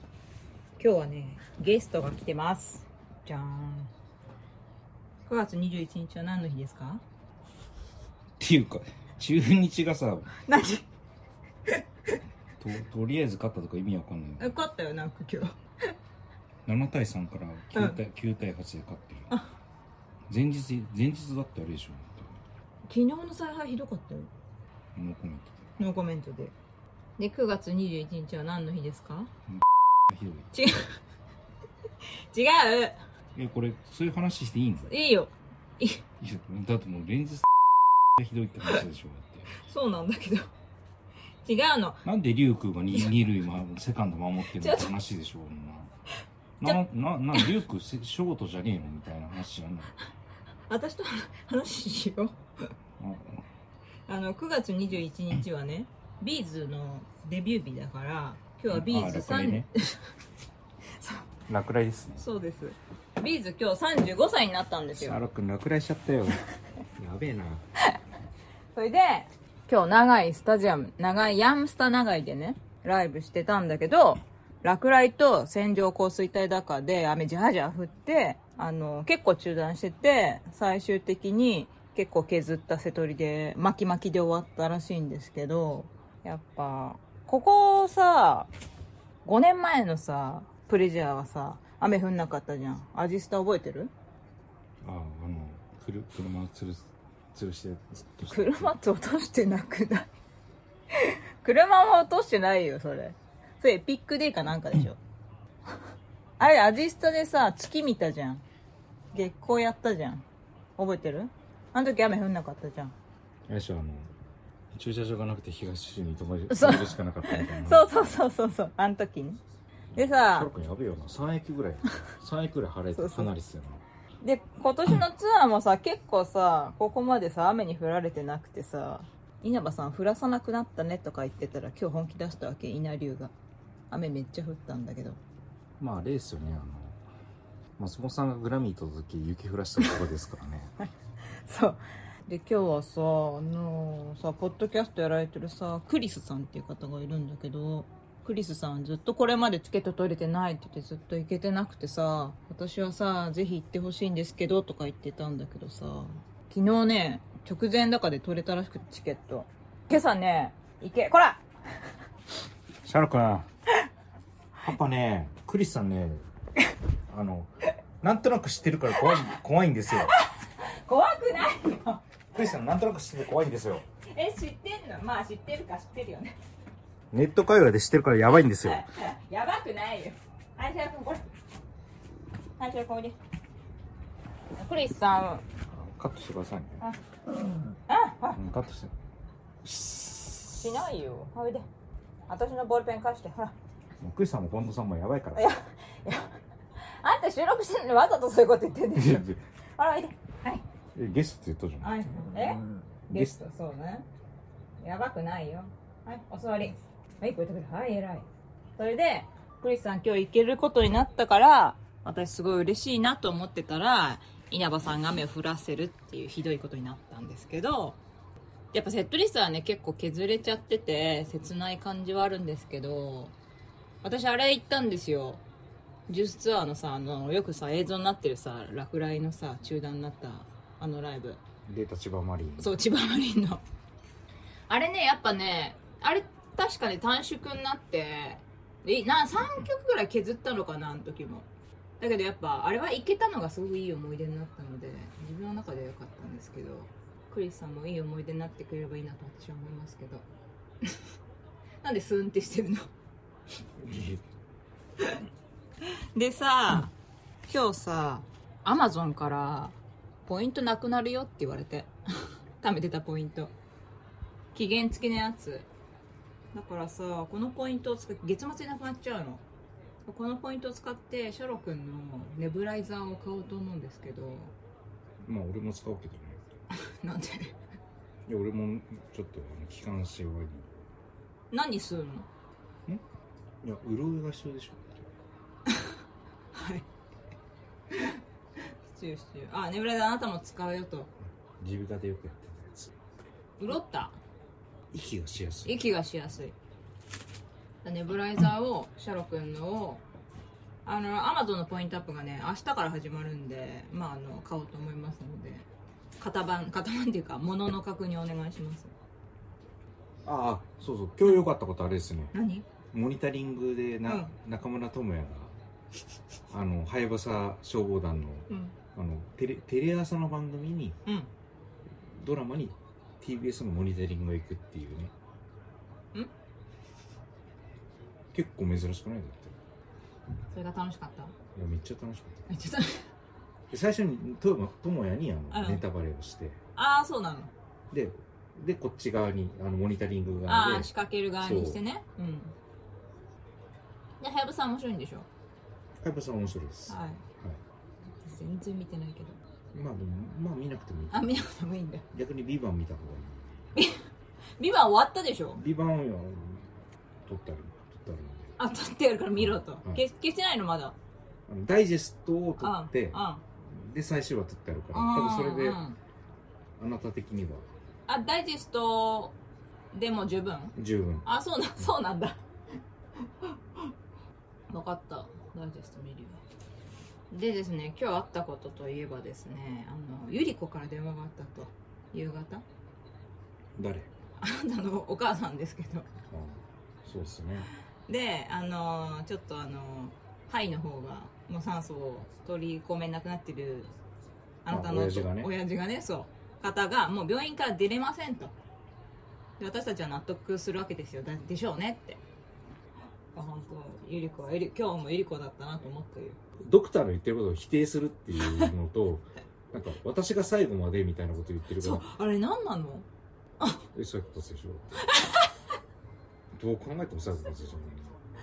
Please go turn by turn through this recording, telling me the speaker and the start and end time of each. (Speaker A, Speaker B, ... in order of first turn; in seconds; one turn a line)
Speaker A: 0.8-3.9
Speaker A: 5.2-7.0
Speaker B: 8.4-10.3
Speaker A: 10.4-10.8
Speaker B: 12.6-14.5
Speaker A: 14.4-15.6
Speaker B: 16.6-19.3
Speaker A: 17.7-18.0
Speaker B: 20.3-22.4
Speaker A: 22.9-24.3
Speaker B: 24.9-25.6
Speaker A: 25.8-26.5
Speaker A: 27.2-29.3
Speaker B: 29.5-30.5
Speaker A: 30.5-30.9
Speaker A: 32.3-33.0
Speaker B: 33.3-34.9
Speaker A: 34.8-36.0
Speaker B: 36.2-37.5
Speaker B: 38.1-39.5
Speaker A: 39.5-40.5
Speaker A: 41.4-42.0
Speaker B: 42.0-45.9
Speaker A: 44.5-44.9
Speaker B: 46.6-49.9
Speaker A: 50.7-52.4
Speaker B: 53.0-53.4
Speaker A: 54.1-60.1
Speaker B: 58.7-59.7
Speaker A: 61.0-61.3
Speaker B: 61.5-62.2
Speaker A: 62.2-65.2
Speaker B: 65.0-66.4
Speaker B: 67.0-67.6
Speaker A: 68.7-88.5
Speaker A: 89.2-93.9
Speaker B: 94.8-98.7
Speaker A: 98.3-100.1
Speaker A: 100.9-105.0
Speaker A: 106.4-108.4
Speaker A: 109.1-110.2
Speaker A: 110.8-112.9
Speaker B: 113.5-114.1
Speaker B: 114.7-118.2
Speaker A: 116.5-119.4
Speaker B: 119.9-123.8
Speaker A: 120.0-120.5
Speaker A: 122.9-123.3
Speaker A: 124.2-133.3
Speaker A: 133.9-135.2
Speaker B: 135.8-137.0
Speaker B: 137.8-140.7
Speaker A: 141.4-161.4
Speaker B: 162.8-163.5
Speaker B: 164.6-166.2
Speaker B: 167.1-170.1
Speaker A: 169.9-172.0
Speaker B: 172.3-173.8
Speaker A: 174.1-176.3
Speaker B: 177.1-178.8
Speaker A: 178.6-181.2
Speaker A: 182.6-183.2
Speaker A: 184.6-185.4
Speaker B: 185.7-186.8
Speaker A: 187.9-188.4
Speaker B: 188.3-188.9
Speaker B: 189.6-190.7
Speaker A: 190.6-191.7
Speaker A: 192.3-193.5
Speaker B: 194.0-195.5
Speaker A: 195.3-200.6
Speaker B: 198.9-199.4
Speaker B: 200.9-202.0
Speaker A: 201.8-204.1
Speaker B: 203.1-203.4
Speaker A: 204.8-208.2
Speaker A: 208.8-218.0
Speaker A: 218.7-223.3
Speaker A: 224.0-225.4
Speaker A: 226.1-231.4
Speaker B: 231.7-232.7
Speaker A: 232.6-233.6
Speaker A: 234.7-241.5
Speaker A: 242.0-250.2
Speaker A: 251.8-252.9
Speaker B: 253.8-254.2
Speaker A: 256.1-256.9
Speaker A: 257.5-263.5
Speaker A: 264.5-265.7
Speaker A: 266.5-269.4
Speaker A: 270.1-274.5
Speaker B: 275.2-276.4
Speaker A: 276.8-277.5
Speaker B: 278.3-280.7
Speaker A: 281.5-282.3
Speaker B: 283.6-285.1
Speaker A: 285.7-285.9
Speaker A: 286.5-286.9
Speaker A: 287.9-288.2
Speaker A: 288.9-291.1
Speaker B: 291.6-292.9
Speaker A: 293.6-294.2
Speaker B: 294.9-295.8
Speaker A: 295.6-296.5
Speaker A: 297.8-300.0
Speaker A: 300.8-305.6
Speaker A: 306.2-308.9
Speaker B: 310.2-312.3
Speaker A: 312.3-312.6
Speaker B: 312.9-315.5
Speaker A: 314.1-314.3
Speaker B: 316.5-321.0
Speaker A: 318.5-318.8
Speaker B: 322.0-325.1
Speaker B: 328.3-329.6
Speaker A: 330.5-331.3
Speaker B: 331.5-332.4
Speaker A: 332.5-333.1
Speaker B: 333.7-336.6
Speaker A: 335.5-335.8
Speaker A: 336.8-337.5
Speaker B: 337.9-341.8
Speaker A: 340.5-342.5
Speaker A: 344.2-345.3
Speaker B: 346.0-347.6
Speaker A: 346.9-347.2
Speaker A: 348.2-349.4
Speaker B: 349.7-351.5
Speaker A: 351.1-352.0
Speaker B: 352.1-353.6
Speaker A: 353.7-354.0
Speaker A: 354.6-355.6
Speaker B: 355.6-356.7
Speaker B: 357.2-358.5
Speaker A: 358.6-360.9
Speaker B: 359.4-360.0
Speaker B: 361.5-365.8
Speaker A: 362.6-363.4
Speaker A: 364.9-366.0
Speaker B: 366.8-367.7
Speaker A: 368.1-369.4
Speaker A: 369.9-372.4
Speaker B: 370.8-371.3
Speaker A: 373.4-373.9
Speaker A: 374.7-376.4
Speaker A: 377.3-382.6
Speaker B: 383.8-384.1
Speaker A: 384.4-386.1
Speaker B: 386.3-387.7
Speaker A: 388.1-393.9
Speaker A: 394.6-398.5
Speaker B: 394.7-395.5
Speaker A: 399.6-402.2
Speaker A: 403.3-406.4
Speaker B: 406.6-412.1
Speaker A: 408.4-408.7
Speaker A: 411.8-413.1
Speaker B: 413.9-415.0
Speaker A: 415.0-415.5
Speaker B: 416.5-418.1